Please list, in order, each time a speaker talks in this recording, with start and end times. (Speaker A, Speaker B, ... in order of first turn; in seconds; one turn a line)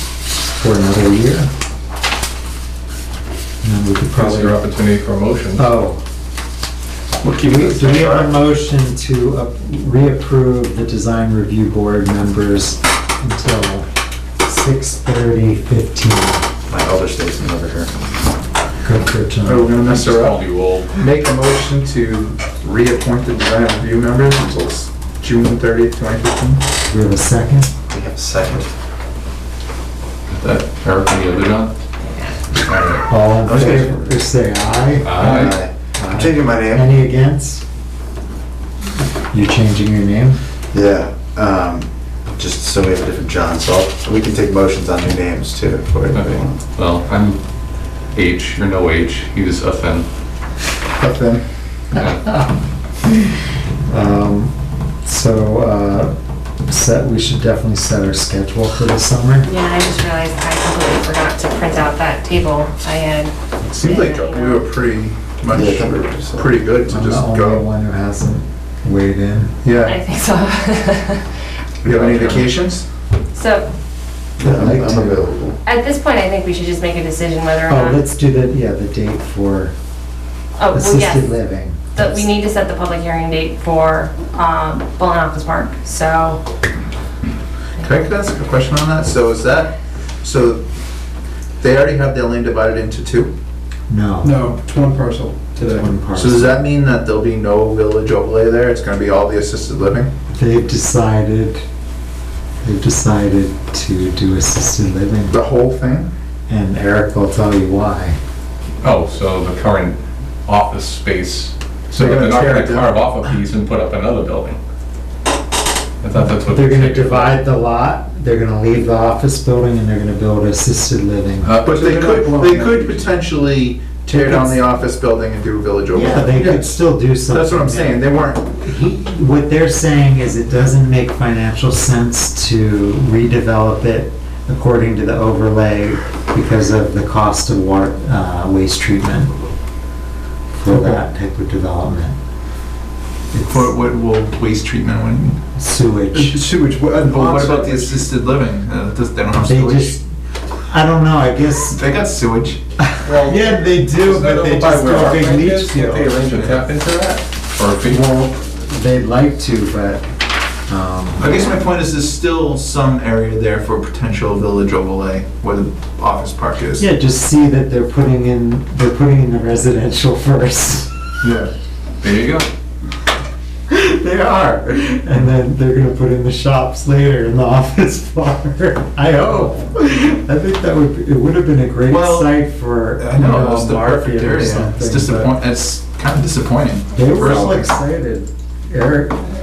Speaker A: 0.5-1.5
Speaker A: 3.6-4.6
Speaker B: 4.1-5.7
Speaker A: 5.5-6.0
Speaker C: 7.2-8.5
Speaker A: 7.4-13.8
Speaker A: 14.4-16.4
Speaker C: 16.7-17.9
Speaker A: 18.8-19.7
Speaker D: 19.4-26.6
Speaker B: 19.9-20.9
Speaker A: 26.9-27.7
Speaker C: 27.9-28.7
Speaker B: 30.3-31.7
Speaker E: 32.0-32.4
Speaker B: 32.7-33.0
Speaker A: 33.1-37.6
Speaker C: 33.4-34.1
Speaker B: 35.0-35.6
Speaker C: 35.1-36.9
Speaker A: 39.2-40.4
Speaker C: 40.7-46.6
Speaker B: 46.1-47.4
Speaker B: 48.1-50.0
Speaker D: 51.0-51.4
Speaker B: 51.9-52.2
Speaker A: 52.0-52.5
Speaker A: 53.9-54.5
Speaker A: 55.0-56.1
Speaker A: 56.7-59.5
Speaker E: 59.4-64.7
Speaker D: 63.6-67.6
Speaker C: 65.5-66.5
Speaker A: 66.8-69.5
Speaker D: 69.6-70.0
Speaker E: 69.8-71.3
Speaker D: 71.8-72.8
Speaker B: 71.9-72.5
Speaker E: 73.3-73.7
Speaker C: 74.4-75.6
Speaker A: 74.4-75.3
Speaker E: 75.6-78.0
Speaker A: 77.7-79.7
Speaker E: 80.6-81.4
Speaker A: 80.7-82.2
Speaker E: 81.9-86.4
Speaker D: 87.8-90.6
Speaker D: 91.6-93.3
Speaker A: 93.9-94.4
Speaker F: 94.2-95.9
Speaker A: 95.7-96.6
Speaker D: 96.1-100.1
Speaker A: 100.3-101.6
Speaker A: 102.6-105.4
Speaker D: 105.3-106.1
Speaker A: 106.5-108.2
Speaker B: 108.8-114.6
Speaker D: 111.9-112.9
Speaker B: 116.0-117.4
Speaker A: 116.4-121.5
Speaker B: 121.4-121.8
Speaker D: 121.6-128.5
Speaker F: 121.6-123.1
Speaker A: 124.1-124.6
Speaker A: 125.9-139.3
Speaker A: 140.6-142.2
Speaker F: 140.7-141.0
Speaker A: 143.3-143.7
Speaker D: 143.4-145.4
Speaker A: 145.5-146.4
Speaker F: 146.1-148.1
Speaker D: 147.0-150.0
Speaker A: 149.3-150.0
Speaker A: 150.7-151.8
Speaker D: 151.7-152.6
Speaker A: 152.8-156.2
Speaker B: 153.0-158.1
Speaker D: 156.3-156.6
Speaker A: 157.8-160.0
Speaker A: 160.7-161.3
Speaker D: 161.2-166.8
Speaker A: 166.8-170.9
Speaker D: 171.2-171.5
Speaker B: 172.0-172.5
Speaker A: 173.7-185.3
Speaker D: 181.9-182.3
Speaker D: 183.0-187.7
Speaker A: 186.9-189.2